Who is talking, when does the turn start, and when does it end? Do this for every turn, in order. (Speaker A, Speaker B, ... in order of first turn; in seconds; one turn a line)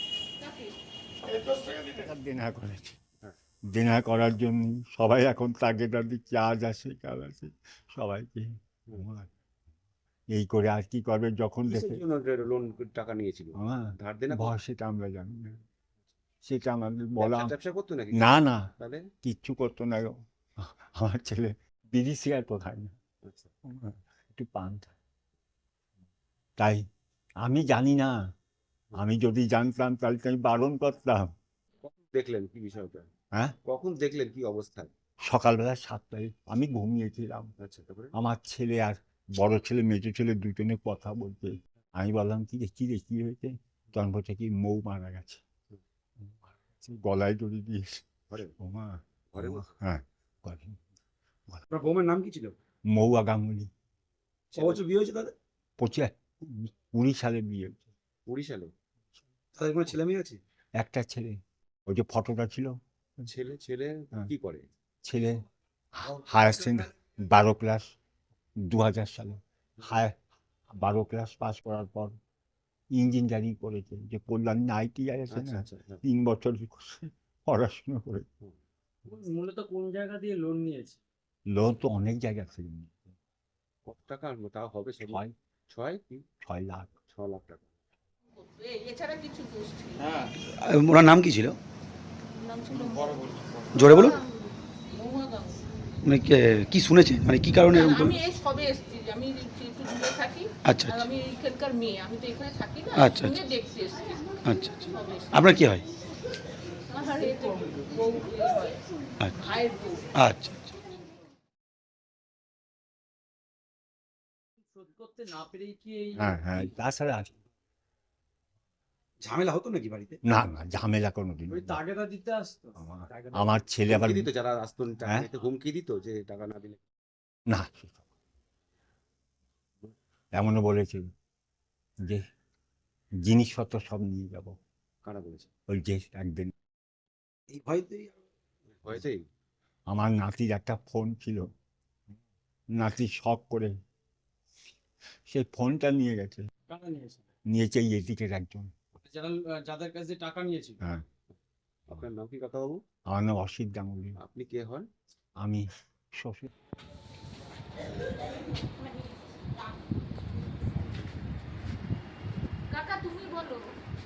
Speaker A: 1.5-3.0
Speaker A: 3.6-9.3
Speaker A: 10.3-12.0
Speaker B: 11.7-14.6
Speaker A: 13.6-15.6
Speaker A: 16.4-17.5
Speaker B: 17.2-19.1
Speaker A: 18.1-23.0
Speaker B: 23.2-23.5
Speaker A: 23.6-24.9
Speaker A: 26.6-26.9
Speaker A: 27.4-28.3
Speaker A: 28.9-31.3
Speaker B: 31.8-33.1
Speaker B: 33.6-34.9
Speaker A: 35.2-37.5
Speaker B: 37.6-38.1
Speaker A: 38.1-45.4
Speaker A: 46.2-48.0
Speaker B: 48.3-48.5
Speaker A: 48.6-50.8
Speaker B: 49.3-49.7
Speaker C: 51.7-52.5
Speaker A: 52.9-53.7
Speaker B: 54.5-54.8
Speaker C: 54.5-55.3
Speaker A: 55.8-57.8
Speaker B: 58.3-58.7
Speaker C: 59.5-60.4
Speaker A: 60.8-63.2
Speaker B: 63.2-64.7
Speaker A: 65.0-67.9
Speaker A: 68.6-70.2
Speaker A: 70.8-72.2
Speaker A: 72.9-78.3
Speaker B: 75.3-76.0
Speaker D: 79.0-81.0
Speaker A: 81.5-83.1
Speaker B: 83.8-86.2
Speaker A: 85.0-85.3
Speaker A: 86.4-86.9
Speaker B: 87.1-87.7
Speaker E: 88.3-90.1
Speaker C: 90.3-91.6
Speaker E: 92.3-93.2
Speaker C: 93.7-94.2
Speaker E: 93.7-95.7
Speaker C: 96.0-98.2
Speaker E: 97.7-104.3
Speaker C: 100.6-101.1
Speaker C: 102.9-103.4
Speaker C: 104.4-105.8
Speaker E: 104.9-105.3
Speaker E: 106.9-108.8
Speaker C: 109.2-109.5
Speaker E: 109.3-110.0
Speaker C: 110.2-110.7
Speaker D: 114.7-116.8
Speaker A: 116.2-117.3
Speaker C: 119.2-120.2
Speaker A: 120.2-121.8
Speaker D: 121.5-123.6
Speaker A: 122.8-124.3
Speaker B: 123.9-126.8
Speaker A: 127.5-128.0
Speaker A: 130.3-131.1
Speaker A: 132.0-132.2
Speaker A: 133.2-134.6
Speaker B: 135.0-135.5
Speaker A: 135.7-136.5
Speaker C: 137.5-138.2
Speaker B: 138.7-139.2
Speaker A: 139.9-141.5
Speaker A: 142.7-143.7
Speaker A: 145.3-146.5
Speaker D: 146.7-147.2
Speaker A: 147.5-148.7
Speaker D: 149.0-150.8
Speaker B: 151.9-152.8
Speaker A: 153.1-154.2
Speaker B: 154.2-154.9
Speaker A: 155.4-156.5
Speaker E: 162.7-163.7